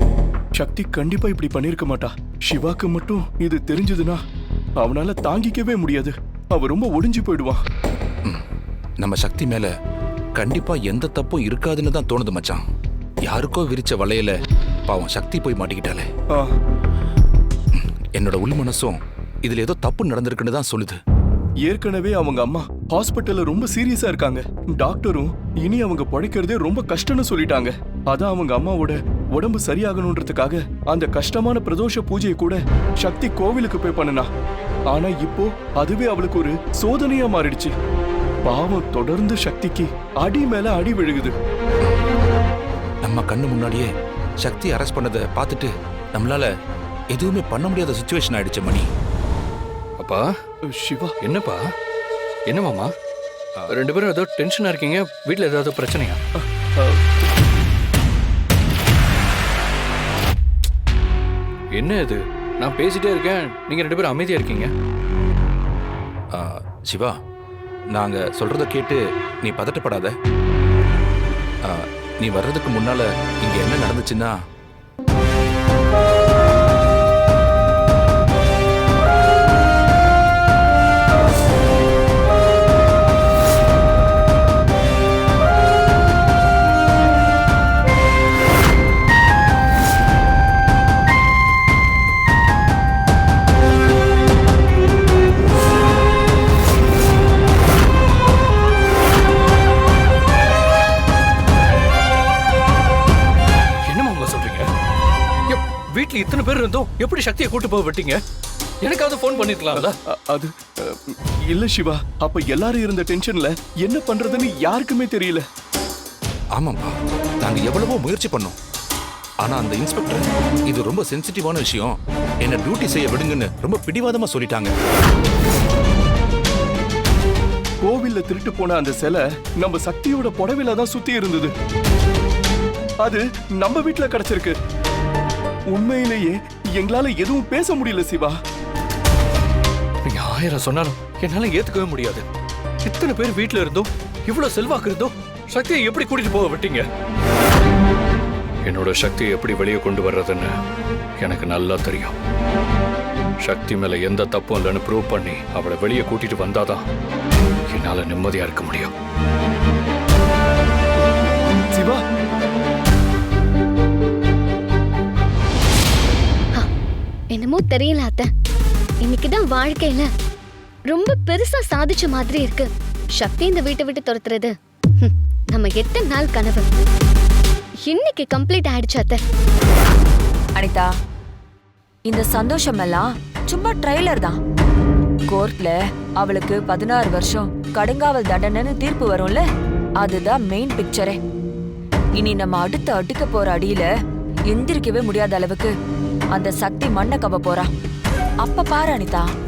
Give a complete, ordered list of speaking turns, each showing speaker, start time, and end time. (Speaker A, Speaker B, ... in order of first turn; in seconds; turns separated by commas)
Speaker A: 0.6-4.2, Speaker A: 4.8-7.6, Speaker B: 9.0-9.7, Speaker B: 10.4-12.6, Speaker B: 13.2-16.1, Speaker B: 17.7-21.0, Speaker A: 21.7-34.3, Speaker A: 34.9-37.7, Speaker A: 38.5-41.4, Speaker B: 43.0-43.9, Speaker B: 44.4-46.5, Speaker B: 47.1-48.9, Speaker C: 50.0-50.3, Speaker A: 50.7-51.1, Speaker C: 51.2-51.6, Speaker C: 52.5-52.9, Speaker C: 53.7-56.2, Speaker A: 56.4-57.0, Speaker C: 61.7-64.7, Speaker B: 66.3-67.2, Speaker B: 67.9-70.1, Speaker B: 71.7-74.3, Speaker C: 103.8-104.7, Speaker C: 105.5-108.2, Speaker C: 108.8-110.0, Speaker A: 109.7-115.4, Speaker B: 116.6-118.6, Speaker B: 119.4-124.7, Speaker A: 127.8-131.5, Speaker A: 133.0-134.6, Speaker A: 135.7-138.4, Speaker C: 140.1-142.3, Speaker C: 142.8-146.9, Speaker C: 148.7-150.6, Speaker C: 151.2-152.2, Speaker C: 153.4-156.9, Speaker C: 157.7-158.9, Speaker A: 161.7-162.0, Speaker D: 167.3-168.3, Speaker D: 169.0-170.1, Speaker D: 170.9-176.7, Speaker D: 177.9-179.2, Speaker E: 180.6-180.9, Speaker E: 182.1-184.4, Speaker E: 185.3-189.4, Speaker E: 190.0-191.2, Speaker E: 192.2-193.9, Speaker E: 194.5-195.7, Speaker E: 196.3-197.7, Speaker E: 198.4-199.3